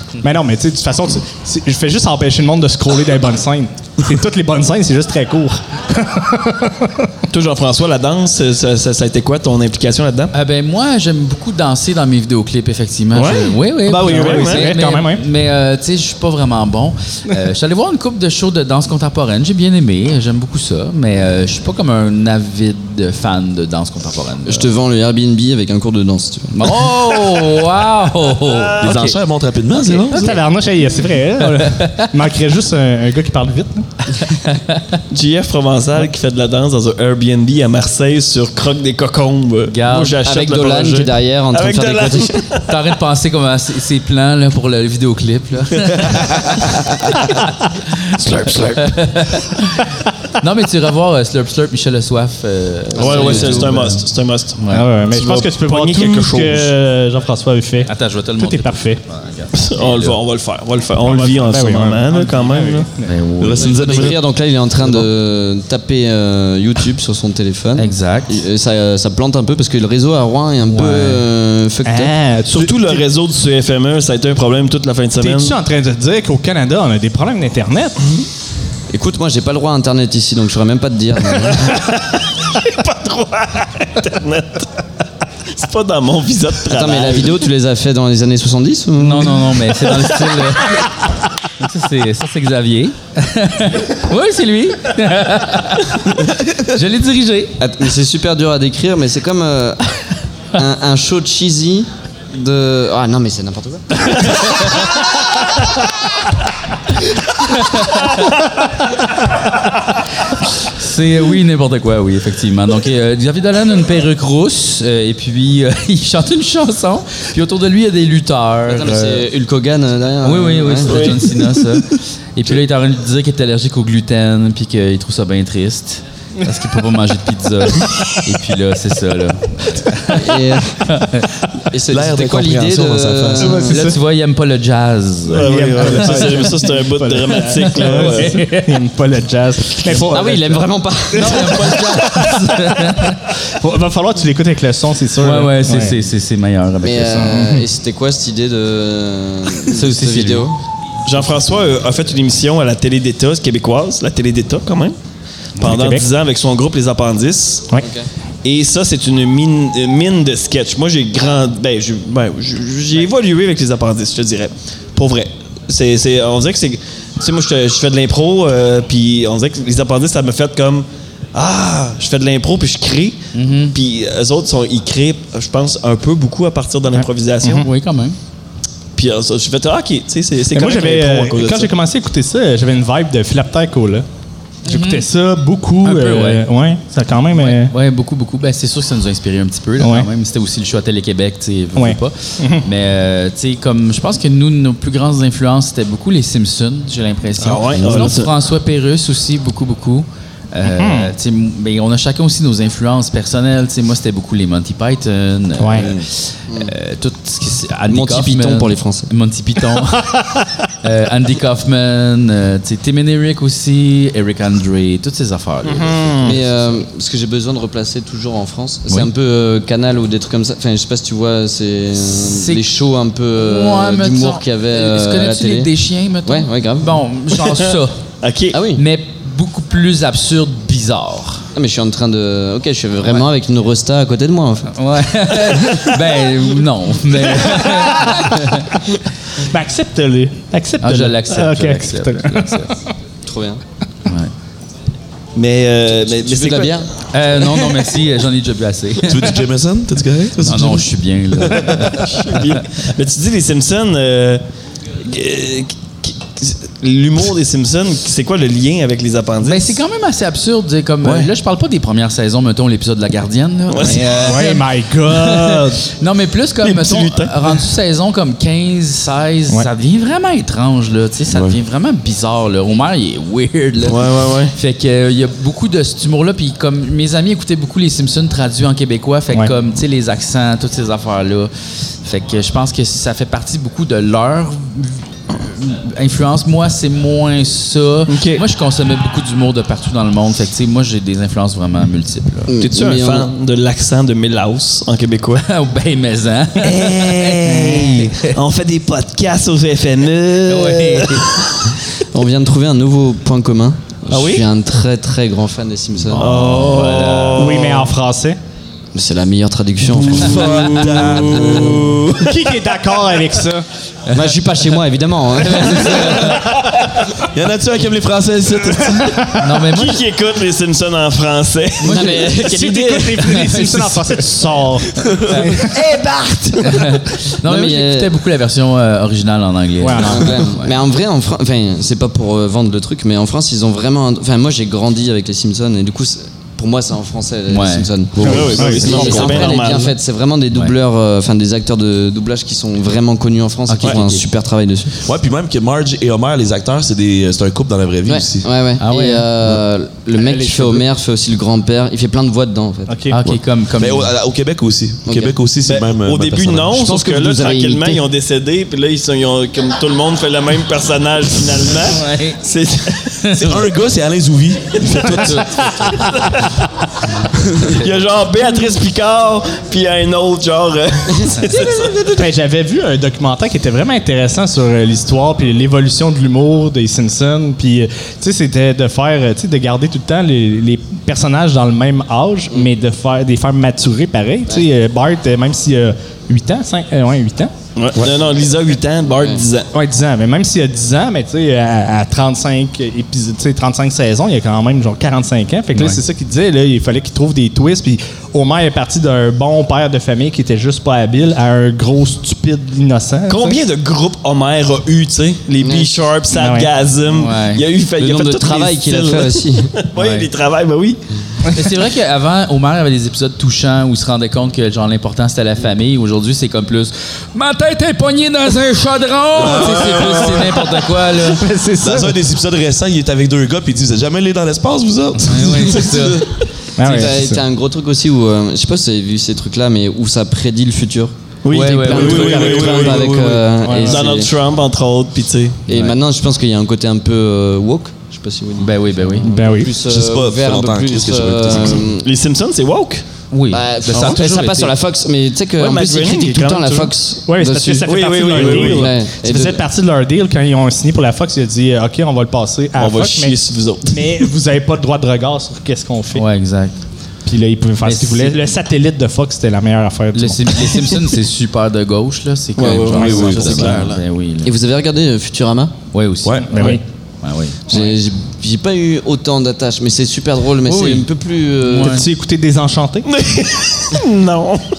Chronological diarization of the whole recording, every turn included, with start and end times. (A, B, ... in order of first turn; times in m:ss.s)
0:00.2-0:07.1 A
0:07.3-0:10.3 B
0:10.3-0:24.7 C
0:13.1-0:14.7 B
0:13.9-0:15.2 A
0:24.4-0:26.7 D
0:26.5-0:29.2 C
0:28.5-0:29.1 B
0:28.8-0:30.4 E
0:30.1-0:33.9 A
0:31.4-0:32.1 C
0:34.2-0:34.9 C
0:35.1-0:42.6 B
0:39.7-0:40.2 C
0:40.2-0:42.4 D
0:42.6-0:48.1 C
0:48.2-0:49.0 B
0:48.6-0:54.0 C
0:52.9-0:54.6 B
0:54.6-0:54.9 C
0:54.7-0:59.0 A
0:55.1-0:56.7 B
0:57.8-1:00.2 C
0:59.5-1:02.9 B
1:01.0-1:03.1 A
1:03.0-1:03.8 C
1:03.4-1:04.2 E
1:03.6-1:12.1 D
1:07.8-1:08.4 C
1:10.6-1:11.2 C
1:11.8-1:13.0 A
1:12.5-1:15.5 B
1:15.2-1:18.0 A
1:18.9-1:21.8 D
1:21.5-1:24.7 B
1:25.5-1:27.4 B
1:26.7-1:29.6 D
1:29.0-1:30.8 C
1:31.6-1:37.6 C
1:37.6-1:39.8 D
1:40.5-1:44.5 D
1:47.6-1:48.1 C
1:50.6-1:59.2 C
1:58.6-2:01.3 D
2:00.2-2:11.3 C
2:00.9-2:01.2 B
2:10.1-2:10.8 D
2:11.7-2:13.9 D
2:11.9-2:13.7 E
2:13.4-2:16.5 C
2:13.5-2:13.9 A
2:15.3-2:18.4 B
2:15.3-2:20.6 A
2:19.8-2:21.8 D
2:21.1-2:23.2 C
2:21.3-2:26.0 A
2:25.2-2:27.4 C
2:26.8-2:30.6 D
2:27.1-2:27.6 A
2:29.6-2:30.5 C
2:31.0-2:34.9 B
2:35.6-2:37.7 B
2:35.6-2:36.0 A
2:37.8-2:38.1 D
2:38.4-2:57.6 B
2:53.3-2:53.7 C
2:57.0-2:57.7 A
2:57.6-2:58.2 C
2:59.0-3:01.7 B
3:00.5-3:04.0 A
3:04.6-3:07.7 A
3:04.7-3:05.1 C
3:05.8-3:06.4 C
3:07.3-3:30.2 C
3:09.8-3:10.1 A
3:11.8-3:12.6 A
3:17.4-3:18.3 B
3:17.7-3:18.1 D
3:20.7-3:21.1 A
3:25.6-3:25.9 A
3:27.9-3:29.1 D
3:30.8-3:36.4 C
3:35.6-3:36.4 A
3:36.2-3:45.7 D
3:42.2-3:42.6 C
3:43.4-3:48.0 C
3:46.2-3:47.0 D
3:48.2-3:48.6 B
3:48.5-3:48.8 D
3:48.7-3:51.4 C
3:51.5-3:54.7 D
3:54.7-3:58.7 C
3:55.3-3:55.9 D
3:57.4-3:58.5 A
3:59.3-4:02.7 A
4:00.8-4:02.7 C
4:03.2-4:03.6 D
4:04.0-4:04.3 C
4:05.4-4:06.9 B
4:06.0-4:06.9 D
4:07.1-4:09.4 C
4:09.0-4:12.1 E
4:10.4-4:12.5 C
4:12.0-4:14.4 B
4:15.0-4:19.8 B
4:19.4-4:52.5 C
4:23.7-4:24.1 B
4:24.1-4:25.8 A
4:26.6-4:27.6 B
4:31.3-4:31.6 E
4:33.8-4:34.5 B
4:48.1-4:48.4 B
4:52.5-4:53.3 D
4:52.6-4:55.4 B
4:55.4-4:58.3 C
4:56.6-5:01.8 B
4:57.5-4:58.1 A
5:00.4-5:01.3 C
5:02.1-5:06.2 D
5:04.1-5:04.5 B
5:06.1-5:07.6 C
5:06.2-5:07.9 B
5:07.4-5:08.4 A
5:08.9-5:12.1 D
5:09.9-5:12.0 E
5:10.3-5:12.2 B
5:12.1-5:13.6 A
5:14.1-5:16.4 D
5:15.4-5:16.5 C
5:17.3-5:19.1 E
5:19.0-5:19.3 A
5:19.4-5:20.0 C
5:19.7-5:22.1 B
5:21.8-5:22.5 C
5:21.8-5:23.5 D
5:22.4-5:25.7 A
5:23.2-5:24.2 C
5:25.3-5:25.6 C
5:25.6-5:28.1 D
5:26.6-5:30.7 C
5:29.8-5:30.4 A
5:30.0-5:45.0 D
5:37.5-5:37.9 C
5:38.1-5:38.8 E
5:38.2-5:39.9 B
5:38.3-5:38.9 A
5:38.8-5:39.5 C
5:43.7-5:44.2 C
5:45.0-5:48.5 E
5:48.0-5:52.9 D
5:48.8-5:49.3 C
5:50.4-5:50.8 A
5:52.9-5:53.2 A
5:53.1-5:54.1 C
5:53.3-5:56.8 E
5:55.1-5:55.3 D
5:55.6-6:03.7 B
5:56.8-5:58.0 D
6:01.8-6:02.4 C
6:03.2-6:03.5 C
6:03.4-6:05.7 E
6:04.8-6:06.5 B
6:05.2-6:06.3 C
6:07.6-6:12.1 B
6:12.1-6:27.5 A
6:27.8-6:29.7 B
6:29.7-6:43.6 A
6:35.7-6:36.0 C
6:43.3-6:51.0 B
6:45.6-6:46.0 D
6:46.3-6:46.7 A
6:47.1-6:47.6 C
6:48.0-6:49.7 D
6:50.0-6:50.3 C
6:51.5-7:01.4 C
6:59.4-7:00.6 E
6:59.4-7:00.6 B
7:01.2-7:02.2 A
7:01.8-7:06.3 E
7:05.3-7:06.3 C
7:06.8-7:07.4 A
7:06.8-7:14.3 D
7:11.4-7:13.3 B
7:11.5-7:12.6 C
7:12.1-7:13.4 E
7:13.6-7:14.0 A
7:13.8-7:15.6 B
7:15.7-7:22.1 D
7:15.7-7:16.0 C
7:18.6-7:19.4 C
7:19.3-7:19.7 A
7:19.8-7:21.9 E
7:21.8-7:23.0 B
7:23.3-7:24.7 C
7:23.5-7:29.6 D
7:25.6-7:26.9 B
7:27.3-7:33.4 A
7:27.5-7:28.9 B
7:32.8-7:34.3 B
7:33.9-7:36.2 A
7:36.1-7:36.7 C
7:37.2-7:41.0 A
7:37.8-7:38.6 C
7:40.1-7:44.5 C
7:42.6-7:43.9 B
7:42.7-7:45.7 D
7:42.9-7:43.3 A
7:42.9-7:44.0 E
7:45.9-7:48.0 C
7:46.2-7:46.8 E
7:46.5-7:46.8 A
7:47.7-7:51.9 D
7:50.6-7:51.1 C
7:51.6-7:52.1 C
7:51.8-7:53.1 A
7:53.0-7:54.6 B